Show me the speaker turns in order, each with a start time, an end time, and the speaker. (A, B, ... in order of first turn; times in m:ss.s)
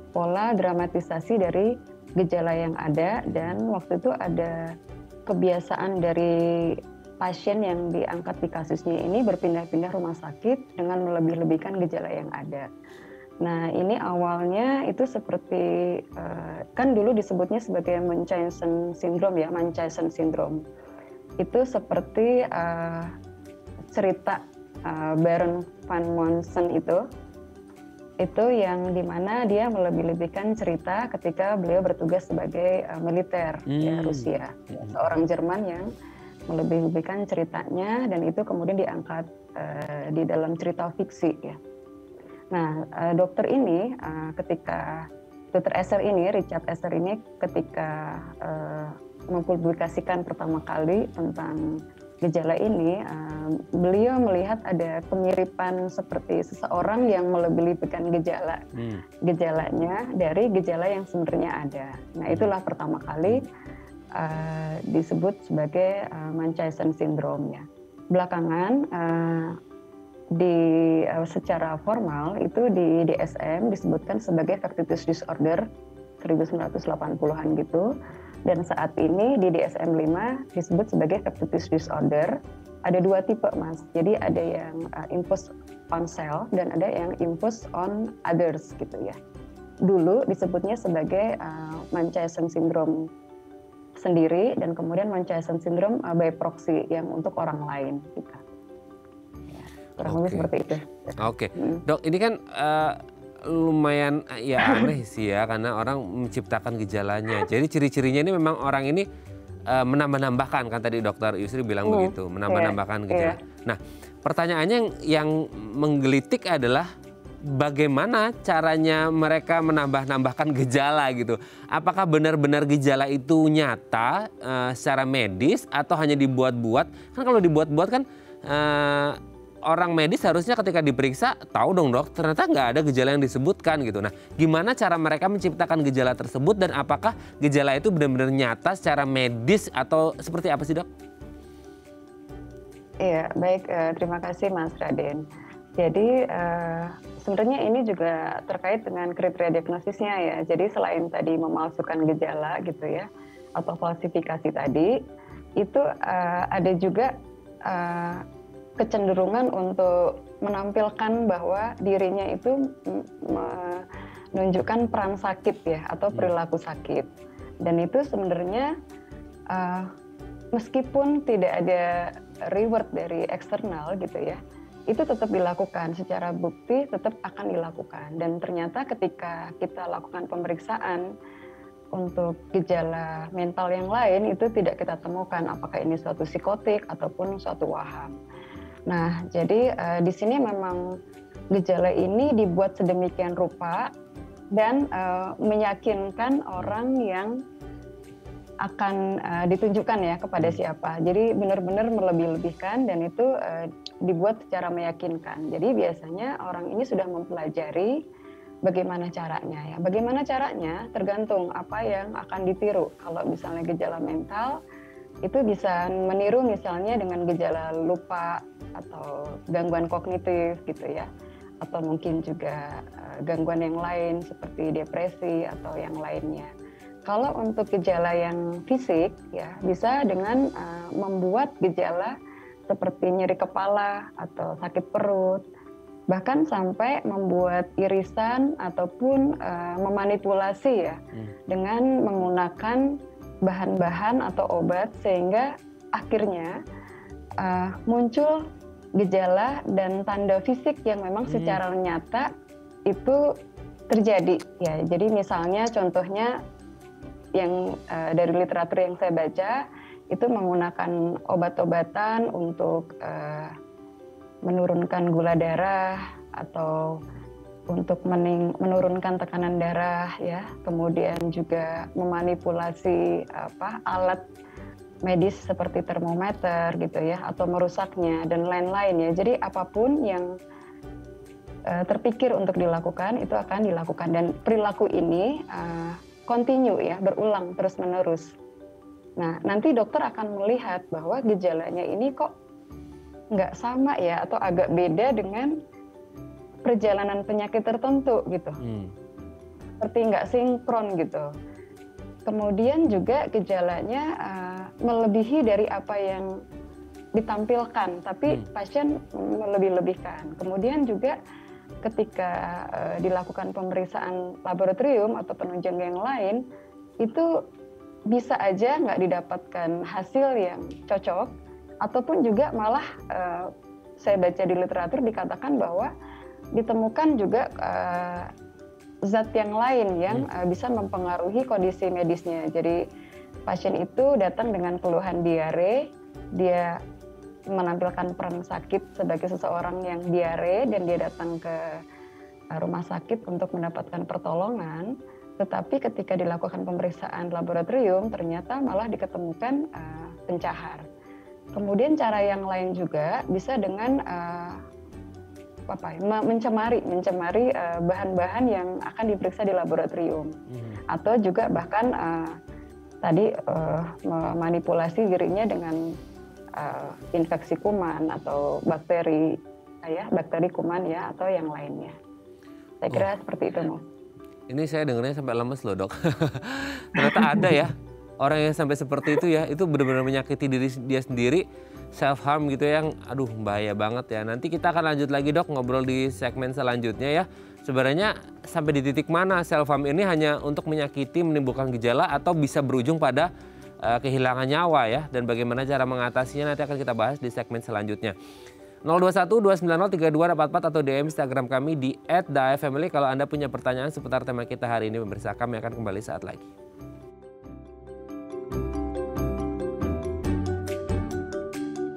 0:00.2-0:04.6 A
0:03.3-0:03.6 B
0:05.3-0:12.7 A
0:13.4-0:20.6 A
0:21.4-0:23.1 A
0:23.9-0:27.0 A
0:28.2-0:35.9 A
0:33.7-0:34.3 B
0:36.5-0:41.6 A
0:42.5-0:58.6 A
0:58.7-0:59.0 B
0:59.2-1:03.5 A
1:04.2-1:09.6 A
1:10.4-1:15.6 A
1:16.2-1:17.9 A
1:18.4-1:29.2 A
1:29.8-1:33.1 A
1:34.0-1:38.4 A
1:39.5-1:41.8 A
1:40.0-1:40.5 B
1:41.2-1:49.0 B
1:44.6-1:44.9 A
1:49.7-1:56.9 B
1:51.8-1:53.4 A
1:57.5-2:20.9 B
2:23.0-2:25.2 A
2:25.8-2:33.0 A
2:33.6-2:34.9 A
2:35.6-2:37.1 A
2:37.7-2:38.2 A
2:38.8-2:47.1 A
2:47.6-2:48.7 A
2:49.5-2:49.9 A
2:50.5-3:01.1 A
3:01.9-3:08.1 A
3:08.9-3:10.9 A
3:11.5-3:13.9 A
3:14.5-3:17.4 A
3:18.6-3:27.9 A
3:28.6-3:34.6 A
3:35.2-3:41.1 A
3:41.6-3:46.5 A
3:47.0-3:52.1 A
3:52.7-3:55.4 A
3:56.1-4:06.5 A
4:07.4-4:12.3 A
4:11.3-4:11.6 B
4:12.9-4:13.2 A
4:13.9-4:16.3 A
4:17.4-4:23.5 A
4:24.4-4:27.0 A
4:27.7-4:34.2 A
4:35.0-4:40.3 A
4:41.7-4:48.3 A
4:49.2-4:52.3 A
4:53.3-4:55.6 A
4:56.6-4:58.6 A
4:58.6-4:58.9 B
4:59.8-5:01.3 A
5:02.2-5:06.3 A
5:07.2-5:11.2 A
5:11.8-5:16.4 A
5:17.0-5:17.3 A
5:18.1-5:25.9 A
5:26.6-5:28.3 A
5:29.0-5:32.8 A
5:33.5-5:36.8 A
5:37.5-5:41.8 A
5:42.5-5:50.8 A
5:51.5-5:54.6 A
5:55.7-6:00.4 A
6:00.5-6:00.8 B
6:00.9-6:02.3 A
6:03.0-6:05.8 A
6:06.6-6:11.9 A
6:12.8-6:13.8 A
6:14.5-6:21.4 B
6:17.0-6:17.6 A
6:22.0-6:33.3 B
6:33.8-6:38.1 B
6:38.8-6:46.5 B